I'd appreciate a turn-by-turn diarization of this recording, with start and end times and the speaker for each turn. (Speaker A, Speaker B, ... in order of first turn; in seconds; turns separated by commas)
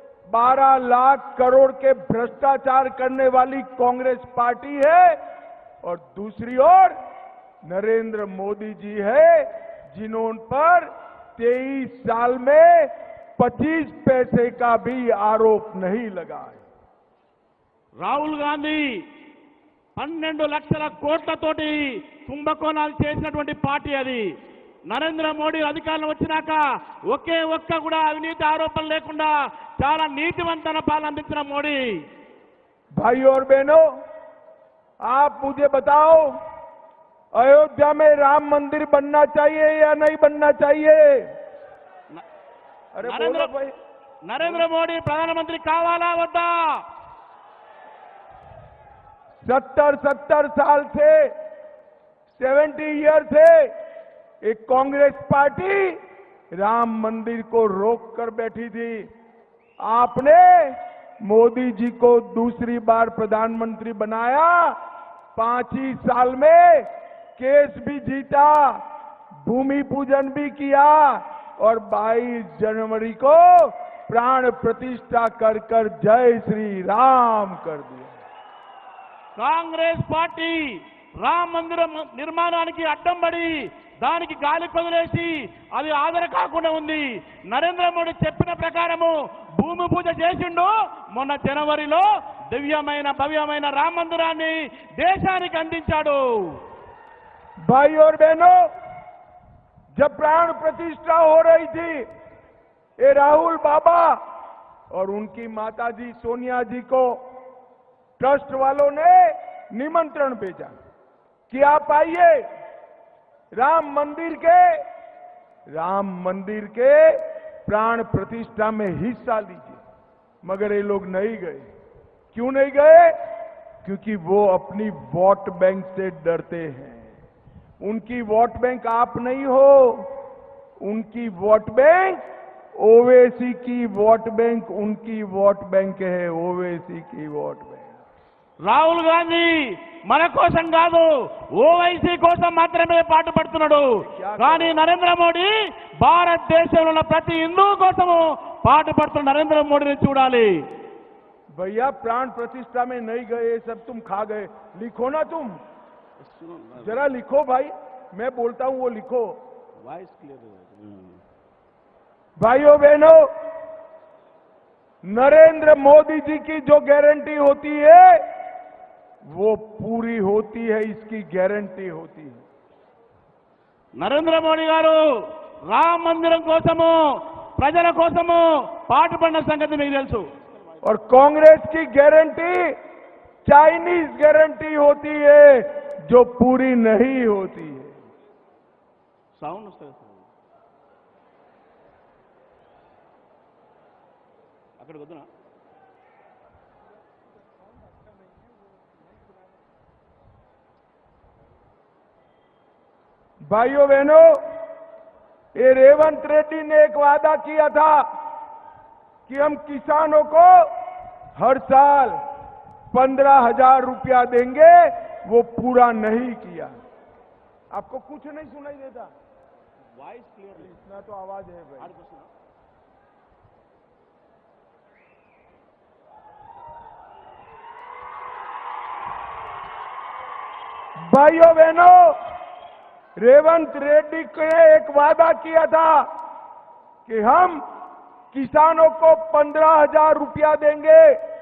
Speaker A: 0.3-5.2, Speaker A: 5.8-7.0, Speaker A: 7.6-16.6, Speaker B: 18.0-18.8, Speaker B: 20.0-24.2, Speaker B: 24.9-26.6, Speaker B: 27.1-31.8, Speaker A: 33.0-33.8, Speaker A: 35.1-36.3, Speaker A: 37.3-41.3, Speaker A: 42.9-43.7, Speaker B: 43.0-43.5, Speaker B: 44.3-46.8, Speaker A: 49.4-51.3, Speaker A: 52.4-53.7, Speaker A: 54.4-56.0, Speaker A: 56.5-59.1, Speaker A: 59.8-64.8, Speaker A: 65.3-68.8, Speaker A: 69.4-78.2, Speaker B: 79.4-80.6, Speaker B: 81.2-96.6, Speaker A: 97.7-98.6, Speaker A: 100.0-102.1, Speaker A: 103.0-104.2, Speaker A: 104.9-107.2, Speaker A: 108.2-110.8, Speaker A: 111.5-112.4, Speaker A: 113.6-114.7, Speaker A: 115.7-119.8, Speaker A: 120.4-121.7, Speaker A: 122.3-123.2, Speaker A: 123.8-127.1, Speaker A: 127.8-130.1, Speaker A: 130.8-132.2, Speaker A: 132.8-138.0, Speaker B: 138.7-139.5, Speaker B: 140.1-143.8, Speaker A: 144.0-144.8, Speaker B: 144.4-150.5, Speaker A: 151.6-155.6, Speaker B: 156.2-156.9, Speaker A: 156.8-159.4, Speaker B: 159.8-161.2, Speaker A: 162.4-163.2, Speaker A: 165.1-168.3, Speaker A: 169.3-172.4, Speaker B: 174.0-175.0, Speaker B: 175.7-177.0, Speaker B: 177.6-181.2, Speaker A: 180.8-182.8, Speaker A: 183.5-187.9, Speaker B: 189.4-190.3, Speaker B: 194.8-195.3, Speaker A: 203.5-204.3, Speaker A: 205.6-208.0, Speaker A: 209.3-210.7, Speaker A: 211.4-212.2, Speaker A: 212.9-216.7, Speaker A: 217.7-219.1, Speaker B: 219.9-220.7, Speaker A: 220.6-222.0, Speaker B: 221.8-222.3, Speaker A: 231.0-232.2, Speaker A: 233.2-236.1, Speaker A: 237.1-237.6, Speaker A: 238.3-241.1